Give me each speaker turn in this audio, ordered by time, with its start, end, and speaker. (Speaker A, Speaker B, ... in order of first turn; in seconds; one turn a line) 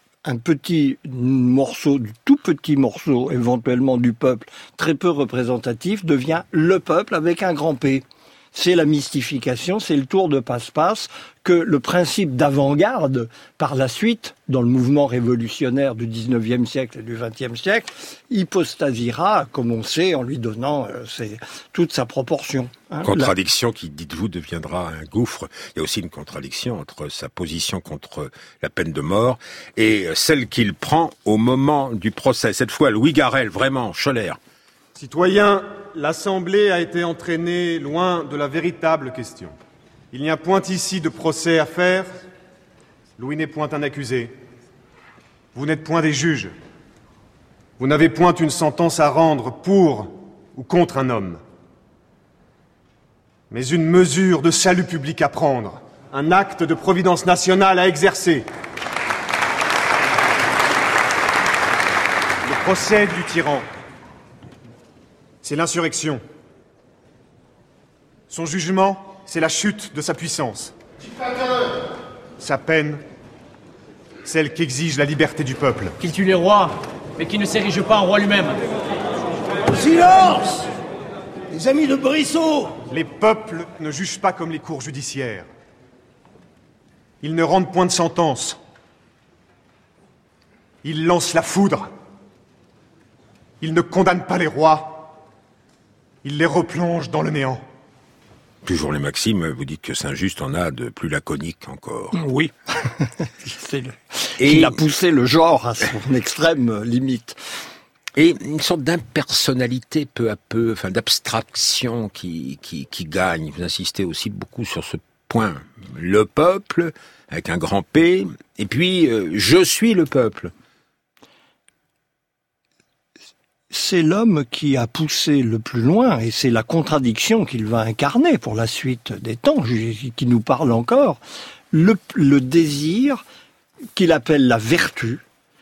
Speaker A: 0.2-23.3
Speaker B: 23.0-34.4
Speaker C: 34.9-39.5
Speaker C: 40.1-42.1
Speaker C: 43.2-44.3
Speaker C: 45.5-46.5
Speaker C: 47.8-51.4
Speaker C: 53.5-58.5
Speaker C: 62.4-63.7
Speaker C: 65.4-66.2
Speaker C: 68.3-70.7
Speaker C: 72.4-73.0
Speaker C: 74.2-76.0
Speaker D: 76.0-78.6
Speaker E: 79.7-80.7
Speaker E: 81.5-82.8
Speaker C: 82.9-85.5
Speaker C: 87.2-88.6
Speaker C: 90.8-91.8
Speaker C: 93.6-95.1
Speaker C: 96.2-97.6
Speaker B: 98.6-102.2
Speaker A: 102.1-107.4
Speaker B: 104.4-104.8
Speaker B: 108.2-120.5
Speaker A: 123.7-131.2
Speaker A: 131.7-133.2
Speaker A: 133.9-135.2